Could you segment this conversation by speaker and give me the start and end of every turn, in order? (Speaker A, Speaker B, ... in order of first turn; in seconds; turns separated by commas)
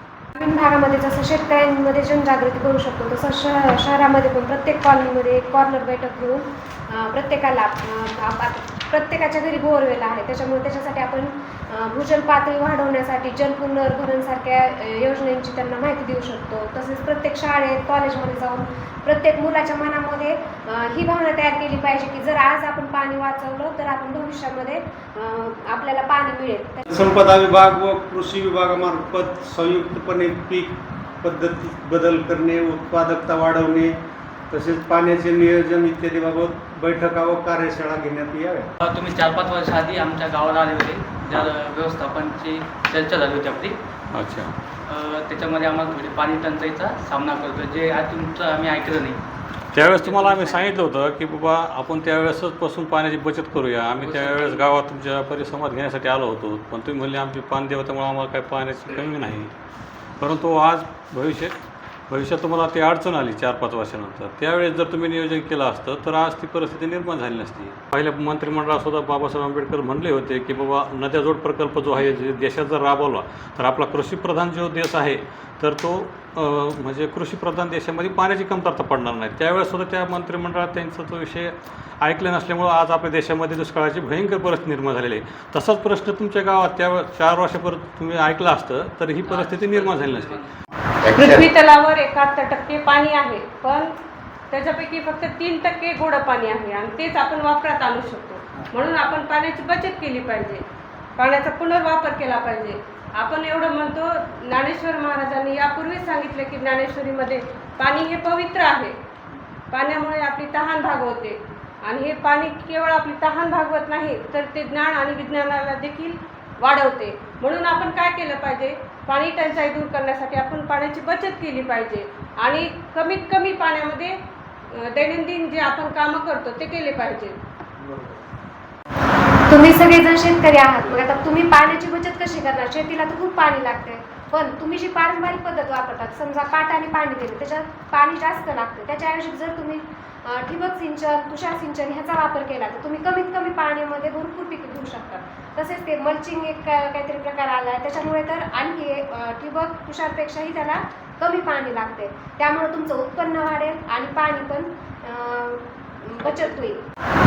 Speaker A: 0.4-26.8, Speaker B: 26.9-33.9, Speaker B: 34.5-38.7, Speaker C: 38.8-43.8, Speaker D: 41.3-41.6, Speaker D: 44.1-44.5, Speaker C: 44.9-49.2, Speaker D: 49.7-59.5, Speaker C: 50.0-50.8, Speaker C: 54.0-54.6, Speaker D: 60.2-61.6, Speaker D: 62.1-90.5, Speaker C: 89.3-90.5, Speaker E: 91.1-93.9, Speaker E: 94.5-100.6, Speaker E: 101.2-109.0, Speaker E: 109.7-124.2, Speaker E: 124.7-127.4, Speaker A: 129.5-156.8